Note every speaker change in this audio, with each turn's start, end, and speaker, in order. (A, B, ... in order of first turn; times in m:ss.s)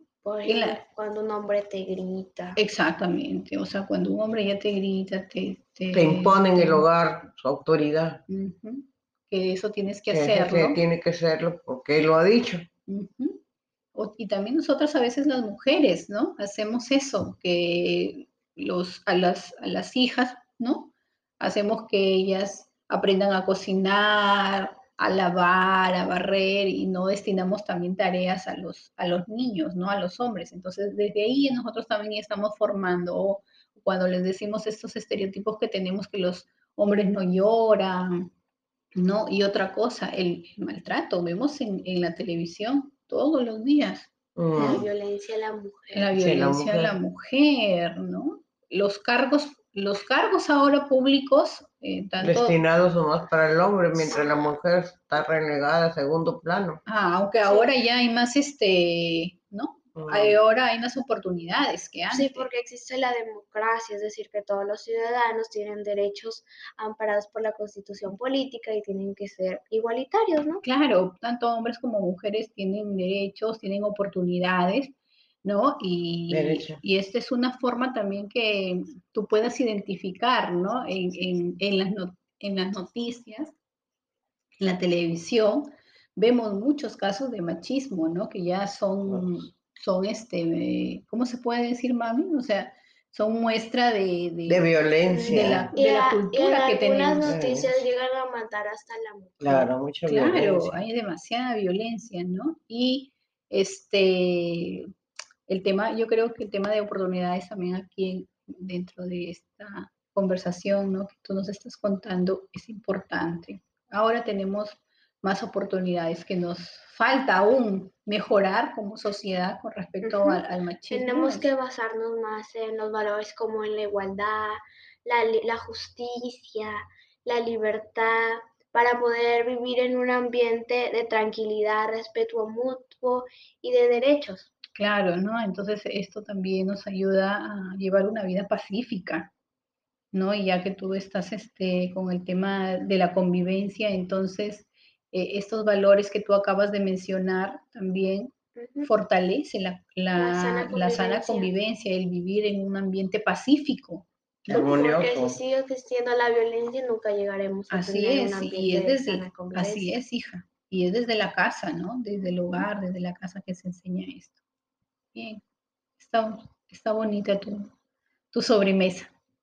0:00.2-0:02.6 A
0:00.5-0:00.8 B
0:02.6-0:06.9 B
0:05.9-0:08.2 C
0:08.3-0:10.8 B
0:10.1-0:12.7 C
0:12.9-0:13.4 B
0:14.0-0:38.3 B
0:39.0-0:44.1 B
0:44.4-0:44.9 C
0:44.6-0:46.1 A
0:45.9-0:52.6 B
0:46.1-0:47.0 C
0:52.2-0:56.8 C
0:54.0-0:54.5 A
0:56.9-1:02.5 B
0:57.4-0:57.7 A
1:00.0-1:00.4 C
1:02.1-1:10.6 A
1:10.6-1:23.5 B
1:16.3-1:16.8 C
1:24.6-1:37.4 B
1:34.5-1:35.7 C
1:35.1-1:39.6 A
1:37.2-1:37.8 C
1:39.4-1:40.8 C
1:39.5-1:44.9 B
1:45.5-2:01.5 B
2:00.0-2:14.5 A
2:14.7-2:19.3 B
2:20.1-2:34.7 B
2:28.6-2:28.9 A
2:30.2-2:31.5 A
2:34.5-2:35.4 C
2:34.5-2:40.0 A
2:37.7-2:44.3 B
2:45.1-2:45.4 B
2:46.0-2:47.7 B
2:48.3-2:49.1 B